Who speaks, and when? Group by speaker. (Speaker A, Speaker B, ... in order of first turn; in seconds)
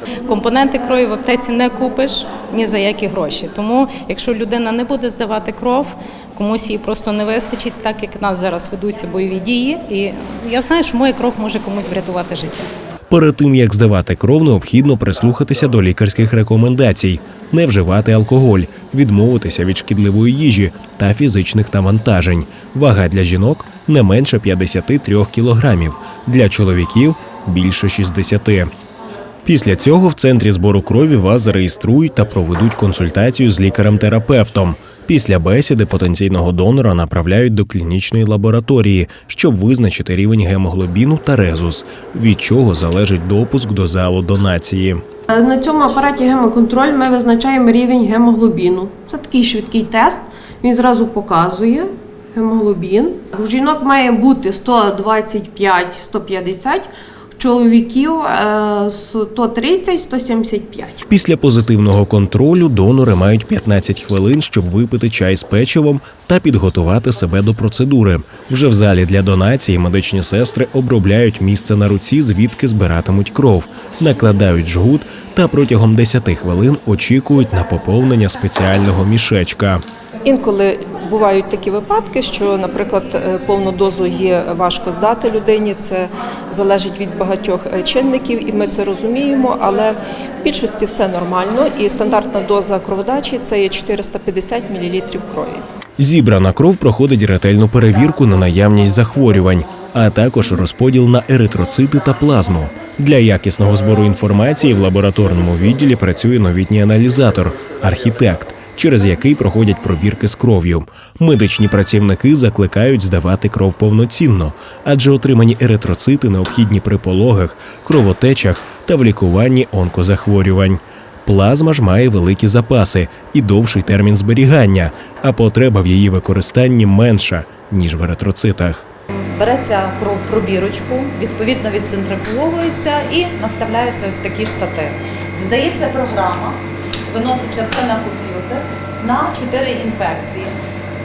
Speaker A: 0.2-12.7
Speaker B: 13.1-28.7, 29.4-45.0, 61.1-79.8, 96.0-128.9
Speaker C: 45.3-61.0
Speaker D: 80.2-95.6
Speaker E: 129.2-136.6, 137.1-140.5